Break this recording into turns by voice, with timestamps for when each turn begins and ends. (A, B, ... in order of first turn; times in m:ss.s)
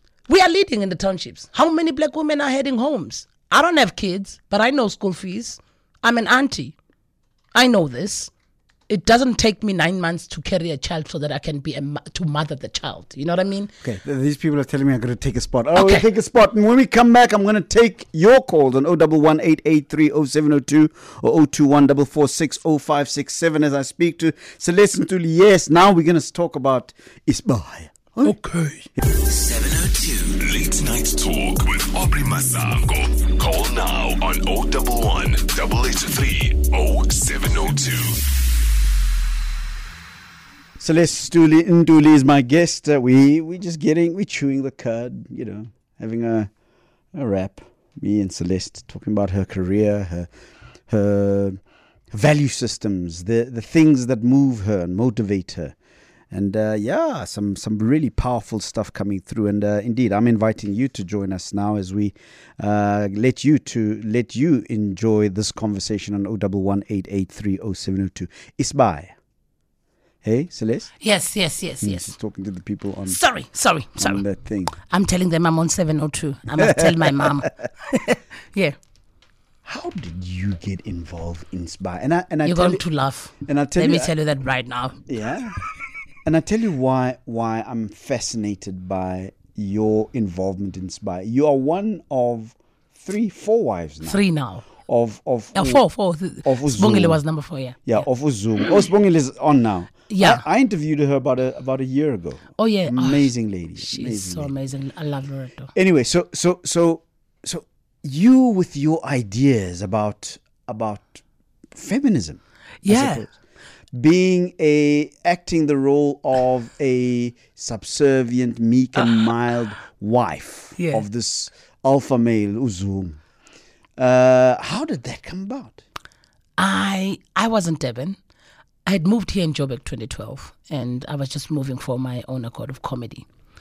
0:00.3-0:06.7 A
0:07.5-0:08.3 A
0:08.9-0:13.7 A
0:13.8-0:28.4 B
0:15.7-0:16.0 A
0:28.2-0:28.9 A
0:29.0-0:38.2 C
0:40.8-0:46.5 B
0:47.1-0:50.3 B
0:50.9-0:51.6 B
0:52.1-0:55.7 B
0:56.3-1:09.1 B
1:10.2-1:10.9 B
1:11.0-1:12.1 A
1:11.8-1:13.2 B
1:13.1-1:14.2 A
1:14.0-1:14.7 B
1:14.8-1:18.8 A
1:16.6-1:17.5 B
1:19.6-1:22.8 B
1:22.4-1:25.0 A
1:23.4-1:24.1 B
1:25.1-1:25.6 B
1:26.2-1:34.2 B
1:34.0-1:34.7 A
1:34.8-1:35.8 B
1:35.5-1:38.0 A
1:36.4-1:37.2 B
1:37.8-1:44.5 B
1:40.1-1:40.4 A
1:42.6-1:45.7 A
1:45.7-1:53.3 B
1:52.8-1:53.2 A
1:53.9-2:03.2 B
2:00.8-2:01.0 A
2:04.0-2:05.8 B
2:06.6-2:08.2 A
2:08.8-2:13.2 A